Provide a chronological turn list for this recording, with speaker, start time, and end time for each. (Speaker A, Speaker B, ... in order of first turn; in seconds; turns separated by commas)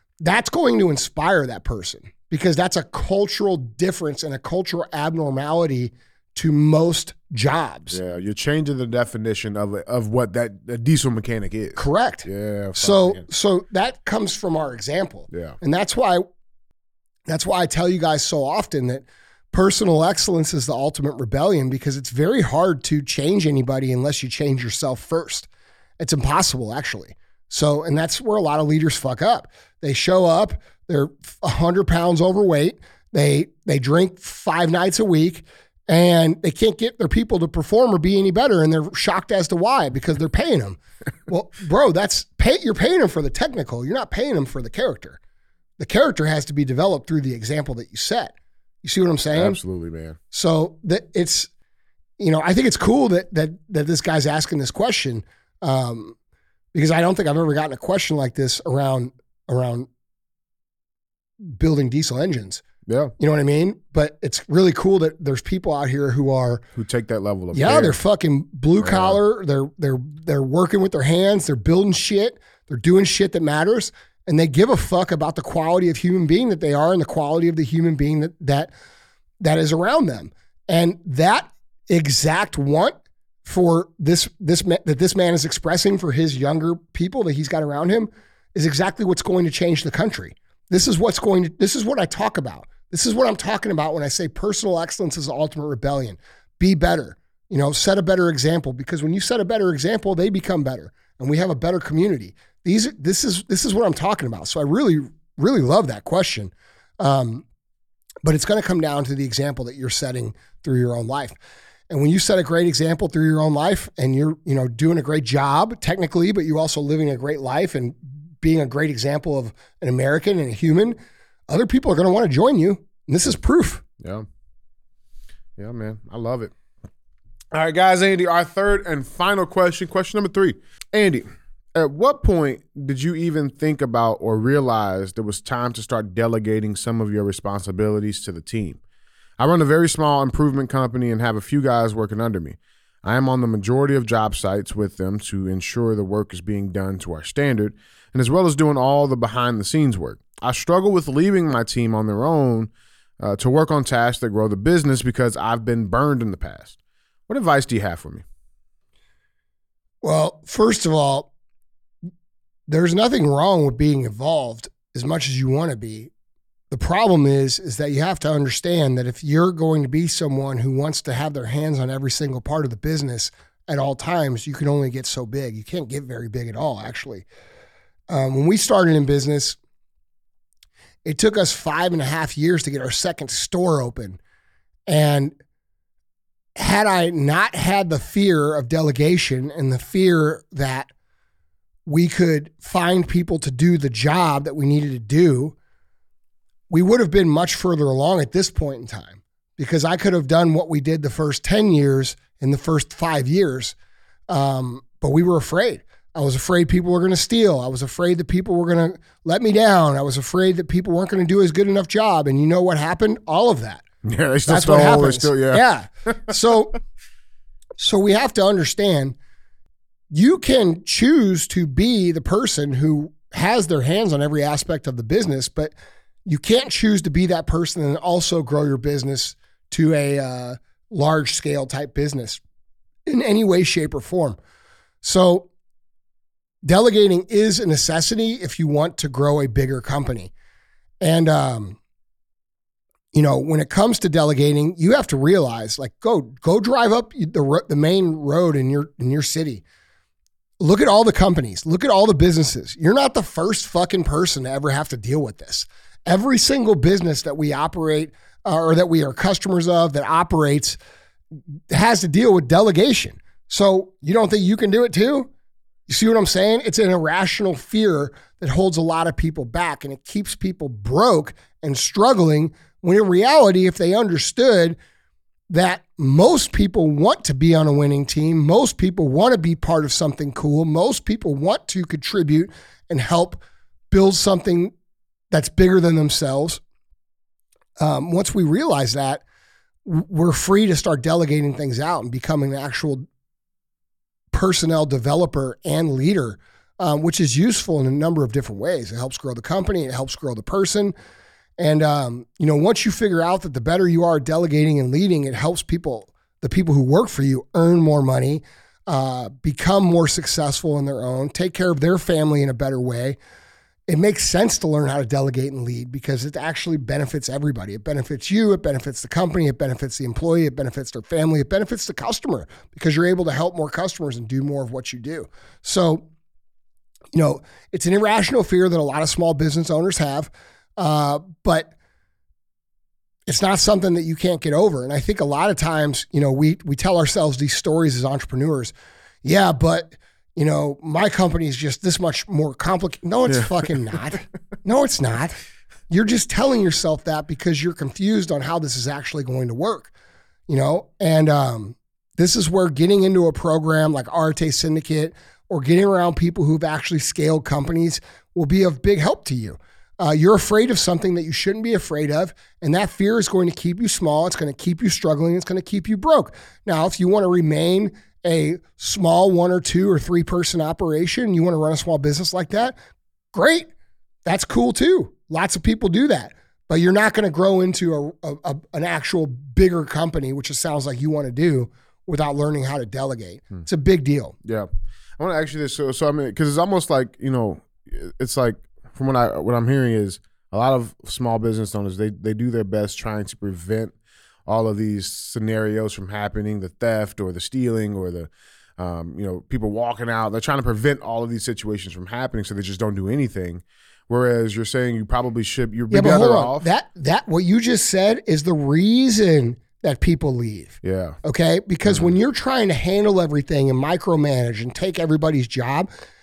Speaker A: 0.2-8.0, Speaker B: 7.9-13.2, Speaker A: 11.8-16.3, Speaker B: 15.3-15.6, Speaker A: 17.3-25.5, Speaker A: 26.0-45.2, Speaker A: 45.8-48.3, Speaker A: 48.8-49.6, Speaker B: 49.4-50.2, Speaker A: 50.3-51.5, Speaker A: 52.2-56.2, Speaker A: 56.7-59.9, Speaker A: 61.4-62.6, Speaker B: 62.9-63.1, Speaker A: 63.2-66.6, Speaker B: 66.8-68.0, Speaker A: 67.5-78.7, Speaker B: 68.8-69.2, Speaker A: 79.4-107.5, Speaker A: 108.2-111.3, Speaker A: 111.9-121.0, Speaker A: 121.5-123.8, Speaker B: 124.0-124.3, Speaker B: 125.6-126.5, Speaker B: 127.5-138.8, Speaker B: 139.4-156.8, Speaker B: 157.3-158.2, Speaker A: 160.0-161.3, Speaker A: 162.7-166.1, Speaker A: 166.7-177.3, Speaker A: 178.1-179.6, Speaker A: 181.1-184.2, Speaker A: 184.9-185.4, Speaker A: 186.6-190.9, Speaker A: 191.9-195.6, Speaker A: 196.7-203.8, Speaker A: 204.3-213.8, Speaker B: 214.0-215.6, Speaker A: 214.5-216.8, Speaker A: 217.8-219.2, Speaker A: 220.1-225.7, Speaker A: 226.3-232.4, Speaker A: 233.1-234.4, Speaker A: 235.0-235.5, Speaker A: 236.7-240.3, Speaker A: 241.0-241.8, Speaker A: 243.1-249.6, Speaker A: 250.6-260.8, Speaker A: 261.7-265.3, Speaker A: 265.9-274.8, Speaker A: 275.5-284.7, Speaker A: 285.3-286.6, Speaker A: 287.8-289.2, Speaker A: 289.9-293.1, Speaker A: 294.3-300.9, Speaker A: 301.6-313.2, Speaker A: 313.9-326.1, Speaker A: 327.1-331.7, Speaker A: 333.3-338.7, Speaker A: 339.2-345.4, Speaker A: 345.9-349.9, Speaker A: 350.5-372.8, Speaker A: 373.3-373.7, Speaker A: 374.3-384.4, Speaker B: 384.4-393.9, Speaker B: 394.5-406.7, Speaker A: 405.9-415.9, Speaker B: 410.8-411.2, Speaker B: 411.9-412.1